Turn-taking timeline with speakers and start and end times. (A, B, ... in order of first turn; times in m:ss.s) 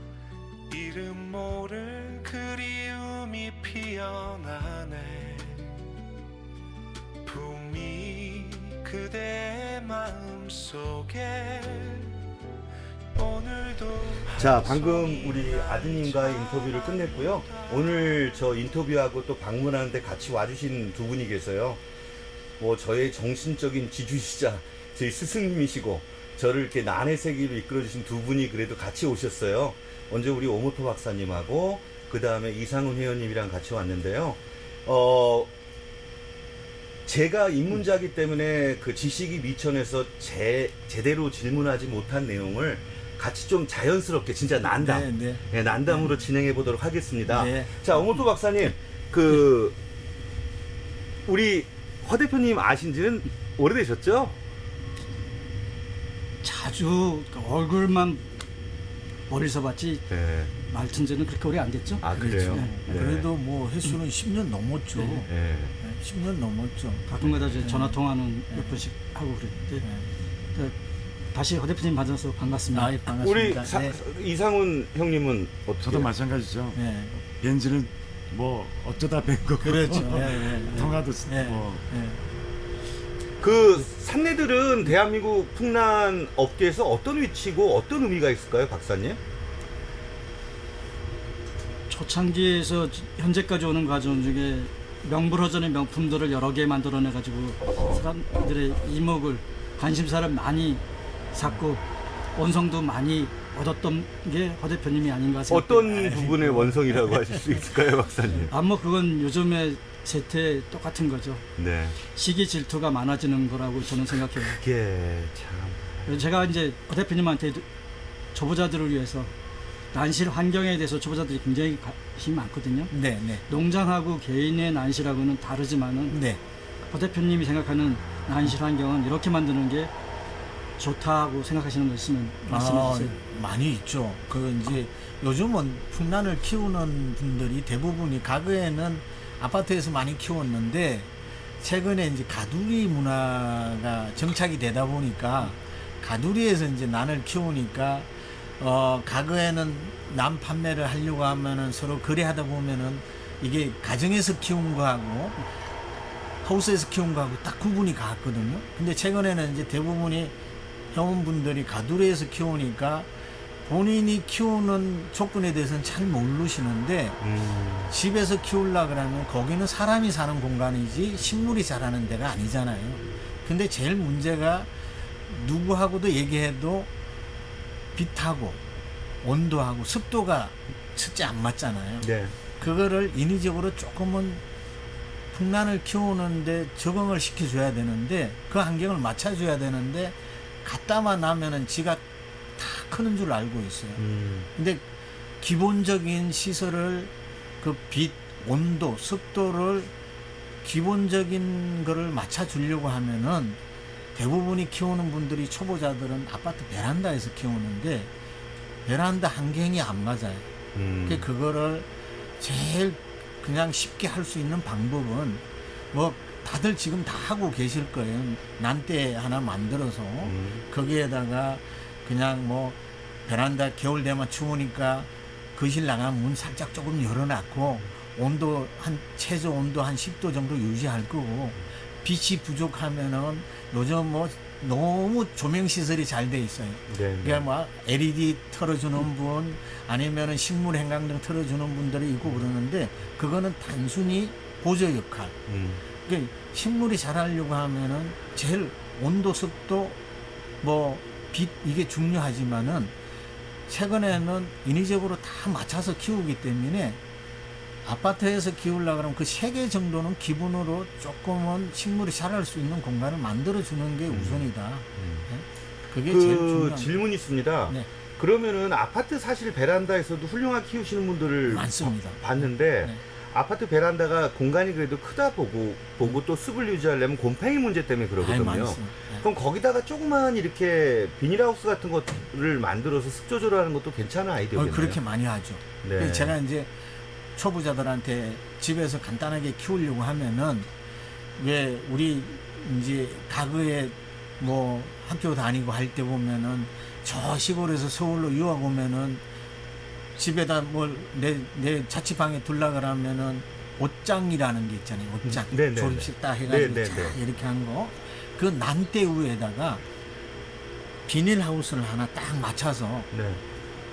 0:00.7-0:05.7 A
0:07.2-0:12.1 A
0:13.1-0:18.5 A
0:14.4-0:21.8 B
0:22.6-0:35.5 B
0:37.1-0:49.8 B
0:44.7-0:45.4 C
0:47.3-0:47.7 C
0:51.3-0:54.4 B
0:56.4-0:58.2 D
0:59.3-1:02.8 D
1:00.1-1:00.5 B
1:02.0-1:03.3 B
1:02.4-1:08.0 C
1:05.3-1:05.8 B
1:07.1-1:09.9 D
1:08.5-1:08.8 C
1:09.8-1:10.1 C
1:11.3-1:13.0 D
1:12.7-1:14.0 C
1:13.2-1:16.1 B
1:15.8-1:21.8 E
1:16.8-1:17.1 C
1:19.6-1:22.2 C
1:23.4-1:29.2 B
1:31.9-1:41.8 D
1:42.3-1:47.2 D
1:45.5-1:48.5 B
1:48.5-1:54.6 D
1:51.6-1:52.0 B
1:54.4-1:56.2 B
1:56.0-1:57.6 D
1:58.3-1:59.3 D
1:59.9-2:02.9 D
2:02.9-2:03.4 C
2:03.5-2:06.2 D
2:06.1-2:06.4 C
2:06.9-2:09.9 D
2:10.8-2:13.2 D
2:12.5-2:35.4 C
2:36.4-2:40.3 C
2:40.9-2:43.1 C
2:43.6-2:47.2 C
2:47.2-2:47.9 B
2:47.9-2:54.7 C
2:55.3-2:56.9 C
2:58.0-2:58.6 C
2:59.2-3:04.4 C
3:02.0-3:02.4 B
3:05.3-3:12.0 C
3:12.6-3:14.0 C
3:14.0-3:14.5 B
3:14.5-3:14.8 C
3:15.4-3:19.9 C
3:20.6-3:23.6 C
3:24.1-3:28.1 C
3:28.9-3:30.4 C
3:30.8-3:31.3 B
3:31.1-3:31.9 C
3:32.4-4:05.4 C
3:40.2-3:40.6 B
3:56.9-3:57.4 B
4:05.5-4:05.8 B
4:06.0-4:10.0 C
4:10.6-4:12.9 C
4:13.7-4:17.0 C
4:17.8-4:26.9 C
4:24.1-4:25.3 B
4:26.1-4:45.0 B
4:31.5-4:32.2 C
4:38.2-4:39.2 C
4:44.6-4:46.7 C
4:45.8-4:46.4 B
4:47.4-4:50.7 C
4:51.4-4:59.2 C
5:00.2-5:09.8 C
5:05.2-5:07.2 B
5:11.1-5:13.1 C
5:13.1-5:13.4 B